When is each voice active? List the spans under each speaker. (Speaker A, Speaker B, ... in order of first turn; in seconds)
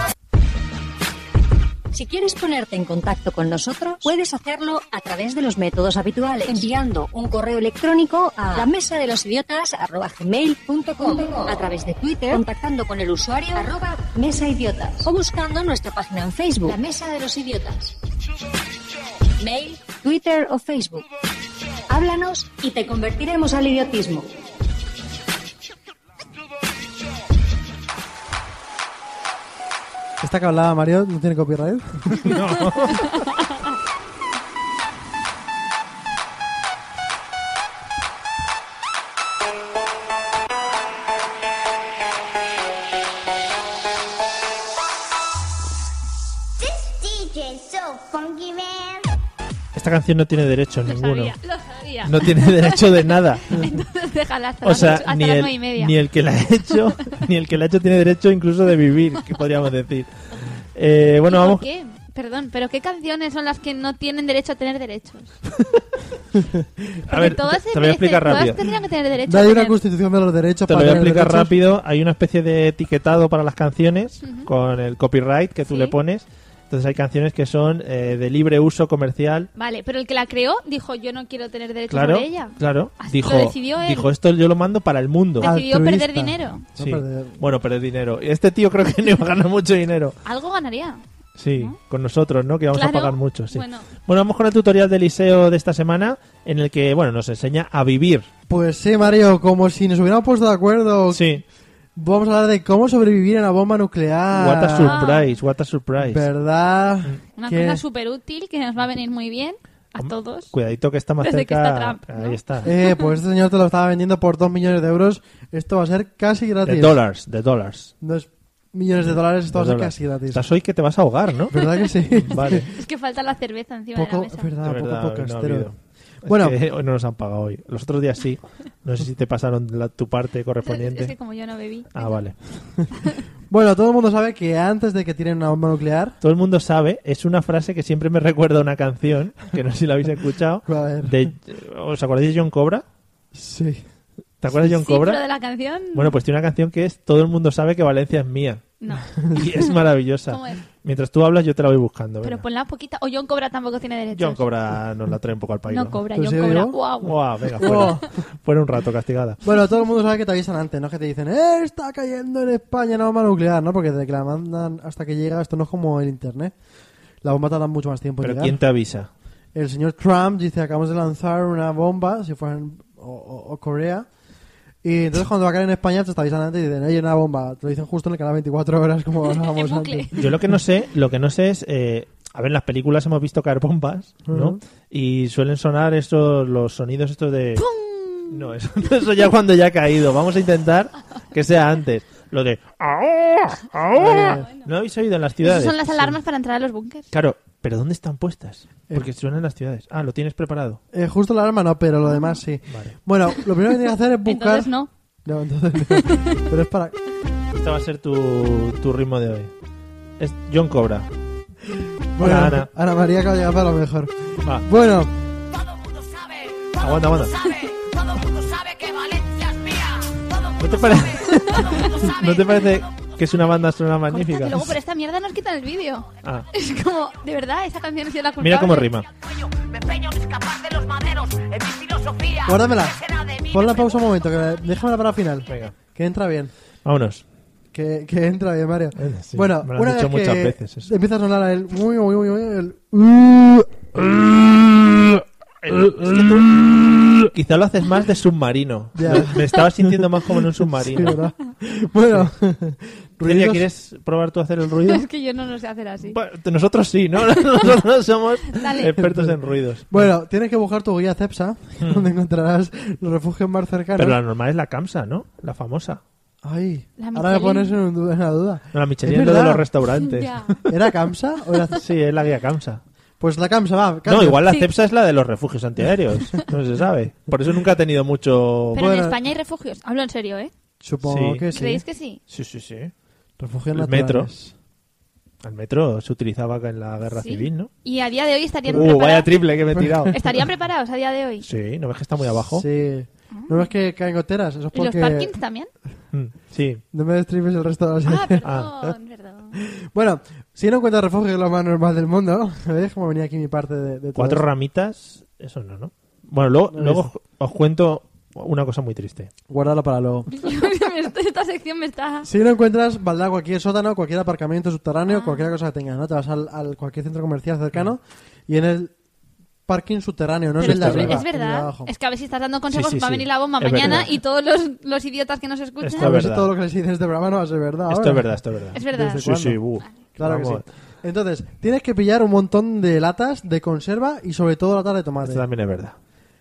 Speaker A: 1.9-18.0, 19.4-21.0, 21.9-24.3
Speaker B: 30.2-32.4, 66.3-66.8, 69.3-71.6, 85.4-87.4, 98.5-101.4, 102.0-105.0, 106.0-107.8, 112.6-117.0, 118.0-120.4, 121.5-122.7, 124.0-125.7, 126.2-126.6, 133.5-136.2, 140.7-141.2, 143.3-143.8, 149.2-149.4, 156.1-156.8, 157.6-158.1, 159.4-166.5, 167.2-168.6, 169.5-174.1, 174.8-180.3, 184.3-184.6, 193.9-194.4, 200.9-204.7, 205.2-207.0, 212.2-215.1, 232.4-236.5, 237.7-247.3, 248.9-250.1, 250.6-253.7, 259.0-259.4, 259.9-264.2, 266.4-269.7, 270.6-271.8, 273.2-274.5, 278.8-279.2, 280.8-281.8, 283.4-284.5, 289.7-290.1, 292.5-295.3, 296.9-298.4, 299.6-304.4, 306.7-307.1, 309.5-310.3, 312.2-318.9, 319.7-321.9, 326.0-328.3, 328.8-329.6, 330.2-335.5
Speaker C: 32.1-33.3, 49.8-51.3, 52.0-53.6, 54.6-60.1, 60.8-61.6, 67.1-68.7, 70.7-79.5, 81.9-85.5, 86.8-90.2, 91.4-98.3, 101.1-101.4, 104.3-106.3, 110.0-112.7, 116.7-117.9, 119.0-121.6, 122.3-122.7, 124.6-131.1, 131.9-132.4, 136.2-142.8, 144.4-145.2, 145.9-148.6, 149.2-152.4, 154.1-156.0, 157.0-159.4, 168.2-169.1, 180.2-187.7, 188.3-196.2, 197.1-200.8, 202.7-203.0, 207.5-209.5, 210.2-211.1, 212.2-212.7, 216.8-217.6, 220.6-224.8, 228.4-229.1, 235.5-235.8, 236.8-237.2, 239.0-240.9, 245.6-251.2, 253.2-255.1, 256.1-260.1, 261.8-262.1, 264.0-266.0, 268.7-270.3, 271.8-272.8, 274.1-279.0, 281.0-281.5, 282.3-282.9, 283.7-284.3, 285.4-287.7, 288.7-290.4, 291.4-292.6, 296.1-296.8, 298.4-298.9, 304.1-309.3, 320.6-321.2, 322.7-324.1, 325.8-326.5, 327.9-330.6, 335.2-336.0
Speaker D: 46.6-49.1
Speaker E: 50.9-55.9, 61.3-65.4, 67.1-69.8, 74.2-74.5, 75.7-76.0, 79.6-84.1, 85.4-86.7, 90.2-91.0, 92.7-93.9, 104.8-105.3, 107.4-110.5, 111.2-113.1, 122.7-124.5, 130.7-132.2, 133.0-133.2, 144.6-146.1, 148.8-149.1, 150.3-150.6, 152.2-154.4, 155.7-157.9, 179.2-180.3, 187.6-188.5, 194.1-194.7, 195.4-197.1, 204.2-204.9, 206.0-206.4, 221.3-221.9, 224.1-228.9, 254.9-256.2, 258.5-258.9, 267.0-267.8, 270.0-270.6, 278.8-280.5, 281.5-282.2, 287.1-289.3, 290.1-291.5, 293.3-293.7, 294.7-295.7, 298.1-299.6, 310.4-312.3, 315.1-315.5, 320.6-326.1, 328.7-329.2